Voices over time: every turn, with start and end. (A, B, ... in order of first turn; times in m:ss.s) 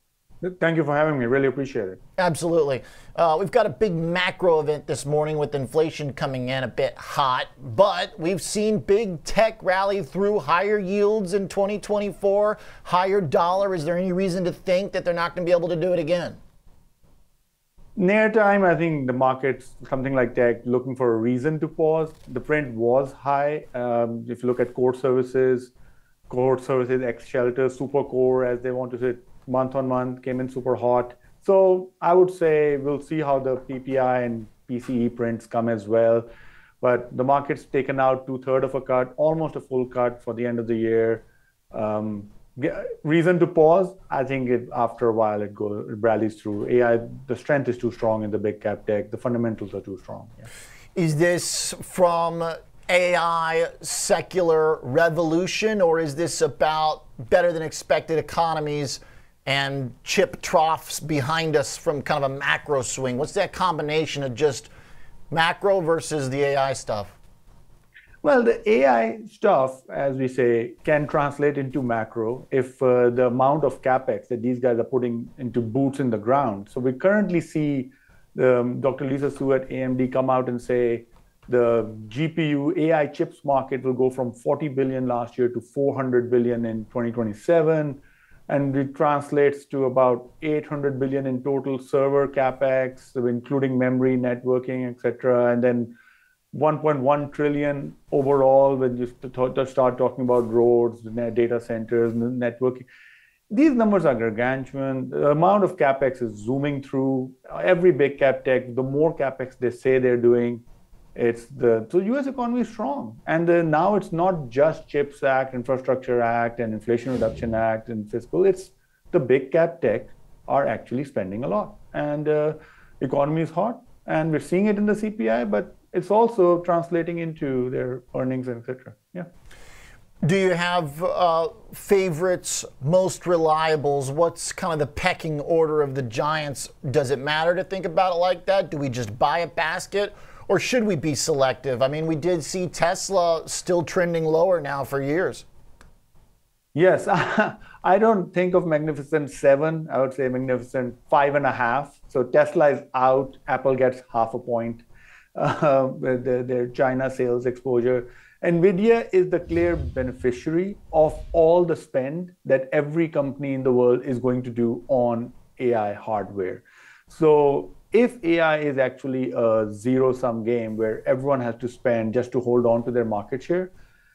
0:00.4-0:02.0 A
0:02.2-0:16.4 B
0:18.0-0:25.7 A
0:26.3-0:36.3 A
0:36.8-0:50.5 A
0:50.9-1:04.7 B
1:05.3-1:07.1 B
1:08.2-1:35.9 A
1:36.5-1:42.9 A
1:43.5-1:50.6 A
1:51.2-2:09.3 A
2:10.2-2:25.4 B
2:26.7-2:34.8 A
2:35.3-2:53.7 A